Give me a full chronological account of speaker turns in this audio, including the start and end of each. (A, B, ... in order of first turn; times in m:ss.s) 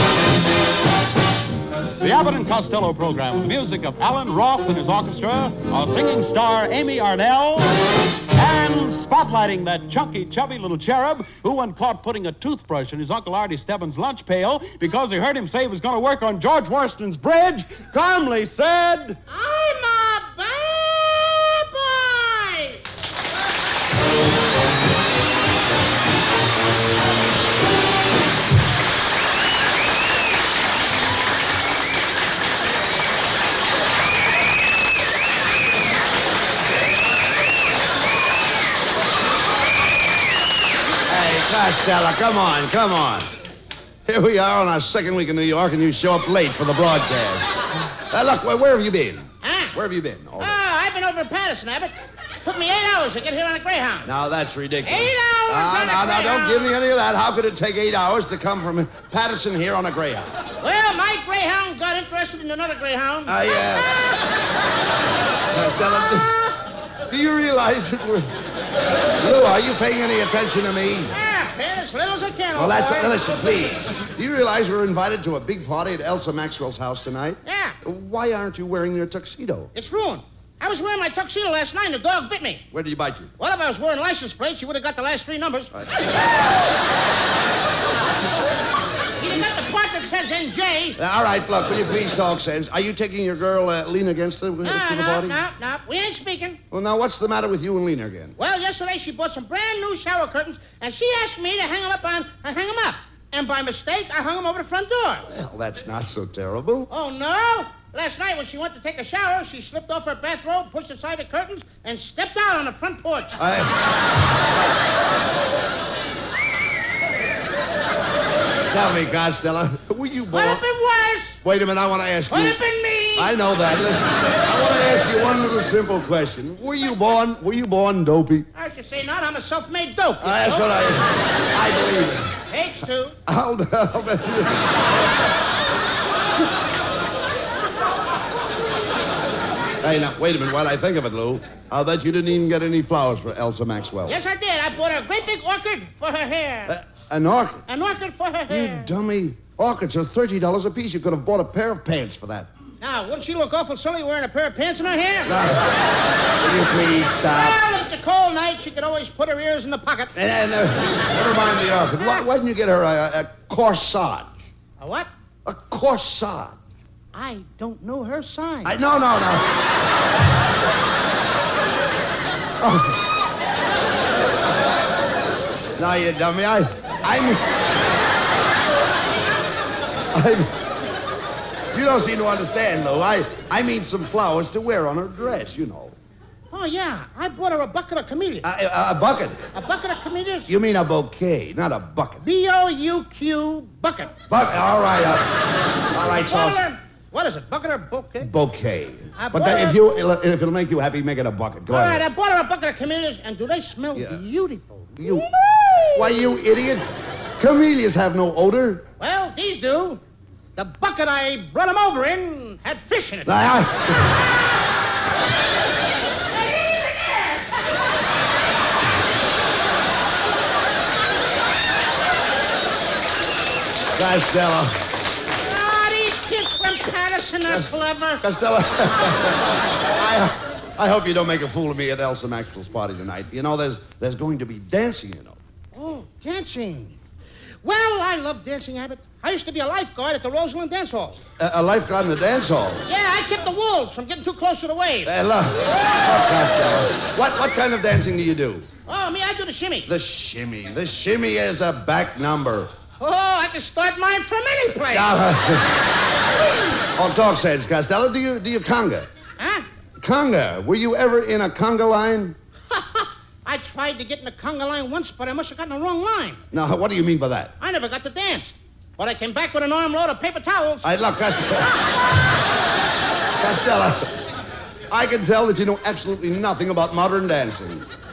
0:02.0-0:19.2 A
0:19.3-0:22.8 B
0:41.1-0:43.3 C
0:44.1-0:47.5 C
0:48.1-0:50.6 C
0:49.4-0:49.7 B
0:50.4-0:51.9 B
0:52.4-0:54.1 B
0:54.0-1:00.4 C
0:54.8-0:56.7 B
1:00.6-1:03.3 B
1:03.3-1:03.9 C
1:05.5-1:06.4 C
1:07.1-1:08.3 C
1:09.2-1:11.1 C
1:11.1-1:13.3 B
1:12.6-1:19.7 C
1:17.4-1:17.8 B
1:19.7-1:22.6 B
1:22.7-1:23.3 C
1:23.4-1:25.7 B
1:29.2-1:31.0 B
1:31.0-1:35.4 C
1:34.6-1:36.6 B
1:36.7-1:38.4 C
1:38.4-1:45.3 B
1:45.3-1:46.9 C
1:46.9-1:53.4 B
1:53.4-1:53.8 C
1:58.7-2:00.6 C
2:00.3-2:01.4 B
2:01.4-2:02.6 C
2:02.3-2:03.3 B
2:03.2-2:08.5 C
2:08.6-2:10.8 B
2:10.2-2:12.4 C
2:12.5-2:13.2 B
2:13.3-2:14.8 C
2:19.8-2:24.2 C
2:24.1-2:26.7 B
2:26.7-2:27.6 C
2:27.7-2:28.9 B
2:28.5-2:32.5 C
2:32.8-2:35.4 B
2:35.3-2:35.7 C
2:36.4-2:37.6 C
2:37.3-2:40.1 B
2:40.2-2:44.4 C
2:44.8-2:45.1 B
2:45.4-2:46.6 C
2:47.1-2:48.8 B
2:48.6-2:49.5 C
2:52.6-2:53.0 C
2:55.8-2:57.4 C
3:00.1-3:00.6 C
3:01.7-3:06.0 C
3:06.5-3:08.5 B
3:08.4-3:09.4 C
3:09.5-3:10.5 B
3:10.5-3:12.2 C
3:12.2-3:14.2 B
3:14.3-3:16.6 C
3:16.3-3:18.3 B
3:18.2-3:22.0 C
3:19.2-3:19.8 B
3:21.7-3:26.2 B
3:23.9-3:24.2 C
3:25.0-3:25.3 C
3:26.0-3:26.9 C
3:27.4-3:28.9 C
3:29.0-3:30.0 B
3:30.6-3:33.4 B
3:33.3-3:34.1 C
3:44.0-3:44.8 C
3:45.4-3:48.2 B
3:47.5-3:55.4 C
3:55.7-3:57.0 B
3:57.6-4:01.2 B
4:01.4-4:02.8 C
4:02.9-4:05.1 B
4:05.0-4:08.7 C
4:08.9-4:09.9 B
4:09.9-4:12.7 C
4:13.0-4:15.1 B
4:14.9-4:15.7 C
4:17.0-4:19.1 C
4:19.4-4:19.7 B
4:20.0-4:22.4 C
4:22.7-4:26.4 B
4:26.5-4:27.5 C
4:27.6-4:30.9 B
4:30.8-4:31.8 C
4:33.4-4:34.1 C
4:34.9-4:37.9 C